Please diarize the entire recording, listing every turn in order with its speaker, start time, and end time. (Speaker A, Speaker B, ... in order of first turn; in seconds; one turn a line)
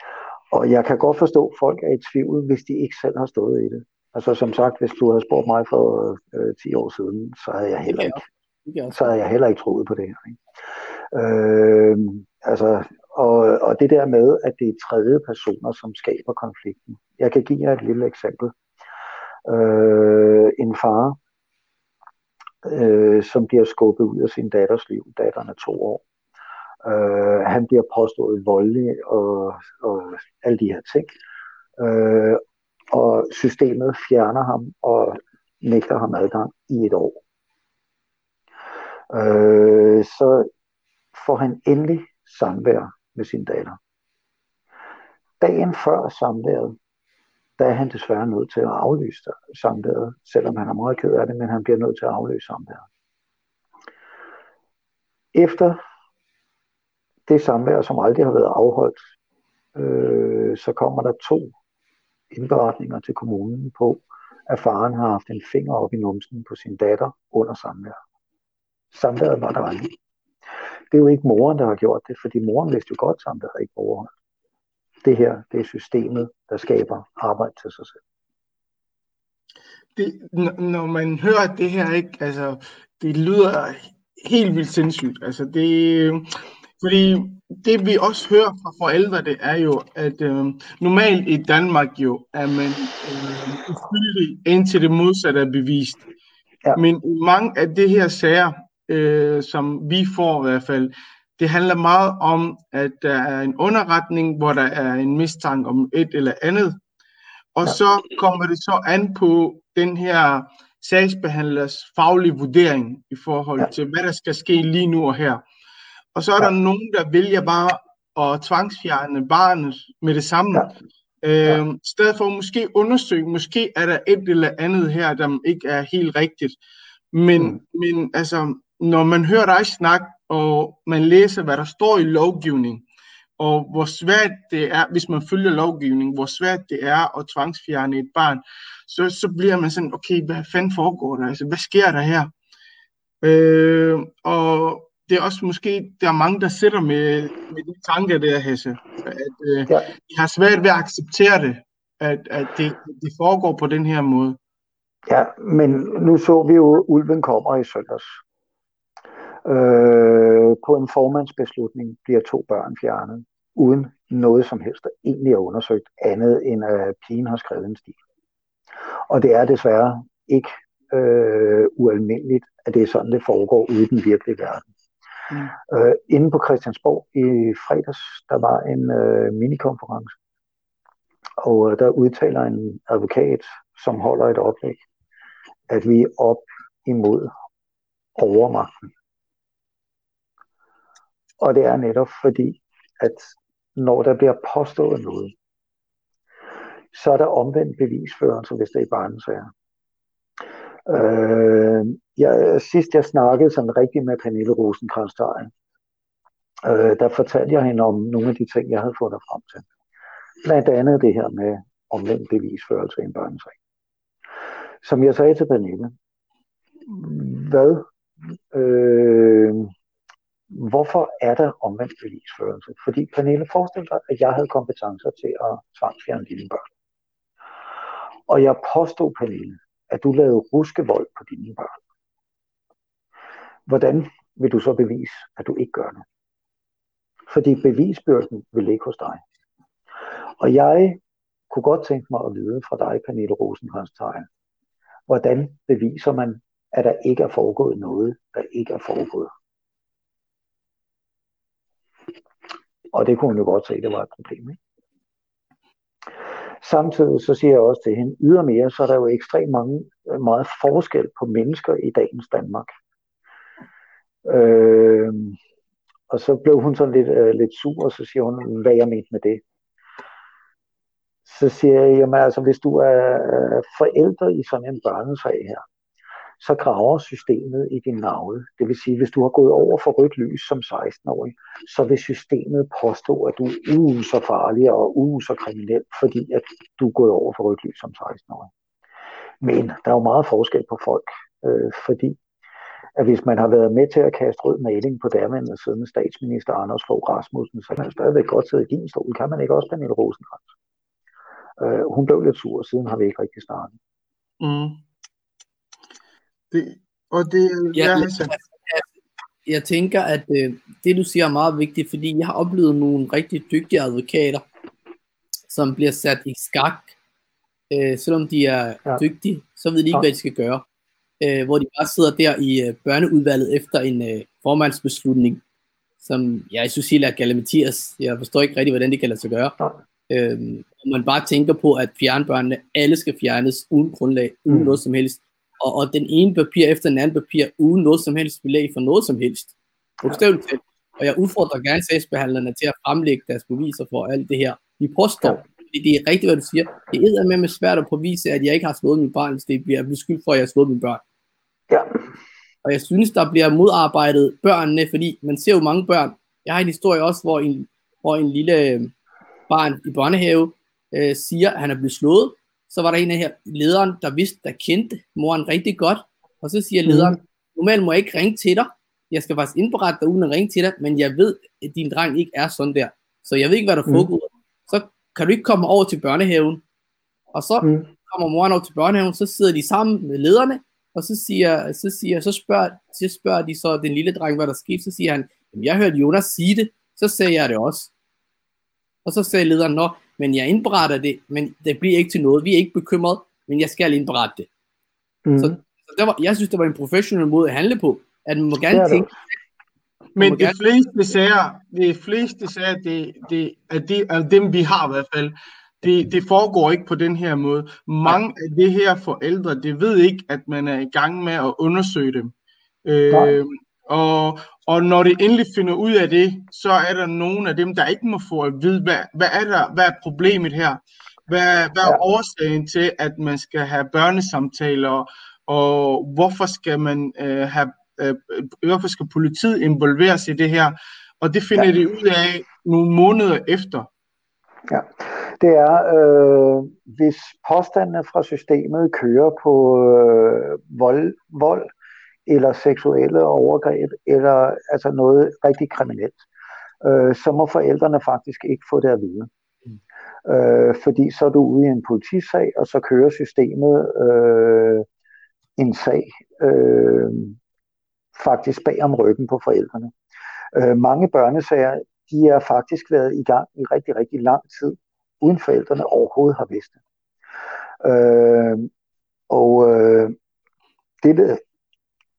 Speaker A: 0.5-8.2
Speaker B: 7.9-9.1
Speaker A: 8.9-10.4
Speaker A: 11.1-18.5
Speaker A: 19.4-21.2
Speaker A: 22.6-26.0
Speaker A: 26.8-31.1
Speaker A: 31.8-37.2
Speaker A: 39.1-40.5
Speaker A: 41.1-43.8
Speaker A: 45.4-46.8
Speaker A: 47.6-52.8
Speaker A: 55.3-55.8
Speaker A: 57.3-59.0
Speaker A: 59.7-61.5
Speaker A: 62.3-68.0
Speaker A: 68.9-70.0
Speaker A: 70.9-74.1
Speaker A: 75.0-78.0
Speaker C: 80.0-86.3
Speaker C: 86.8-96.0
Speaker C: 96.7-106.8
Speaker C: 107.5-115.4
Speaker C: 116.1-120.7
Speaker C: 121.2-126.6
Speaker C: 127.1-132.8
Speaker C: 133.4-142.3
Speaker C: 143.2-154.4
Speaker A: 155.1-158.2
Speaker A: 159.4-168.0
Speaker A: 169.1-174.7
Speaker A: 175.6-180.1
Speaker A: 181.4-184.8
Speaker A: 185.7-187.3
Speaker A: 188.2-188.9
Speaker A: 191.4-195.3
Speaker A: 196.9-199.5
Speaker A: 200.9-205.5
Speaker A: 206.6-209.7
Speaker A: 210.4-213.6
Speaker A: 214.8-215.9
Speaker A: 216.8-219.7
Speaker A: 220.5-226.6
Speaker A: 228.3-231.8
Speaker A: 233.7-236.0
Speaker A: 237.3-239.2
Speaker A: 240.4-244.3
Speaker A: 245.1-249.3
Speaker A: 252.9-254.6
Speaker A: 256.6-262.7
Speaker A: 264.2-265.4
Speaker A: 266.1-269.4
Speaker A: 271.2-275.6
Speaker A: 276.4-288.5
Speaker A: 289.4-292.2
Speaker A: 292.9-300.5
Speaker A: 301.6-303.8
Speaker C: 304.4-304.8
Speaker C: 306.5-308.3
Speaker B: 307.7-308.9
Speaker B: 309.4-314.4
Speaker B: 315.5-316.9
Speaker B: 317.7-320.6
Speaker B: 321.2-325.4
Speaker B: 326.0-329.6
Speaker B: 330.1-351.0
Speaker A: 334.5-334.8
Speaker B: 352.6-358.9
Speaker B: 359.5-376.6
Speaker A: 366.9-367.2
Speaker B: 377.3-387.9
Speaker B: 389.0-394.5
Speaker A: 395.2-395.6
Speaker B: 395.4-399.1
Speaker A: 398.7-399.1
Speaker C: 400.1-412.3
Speaker B: 400.2-400.6
Speaker C: 412.8-433.9
Speaker A: 413.1-413.4
Speaker A: 434.7-441.7
Speaker A: 442.2-446.2
Speaker A: 446.8-449.3
Speaker A: 450.2-454.9
Speaker A: 455.6-457.4
Speaker A: 458.1-459.9
Speaker A: 460.5-466.8
Speaker A: 467.8-468.7
Speaker A: 469.3-470.1
Speaker A: 471.0-471.4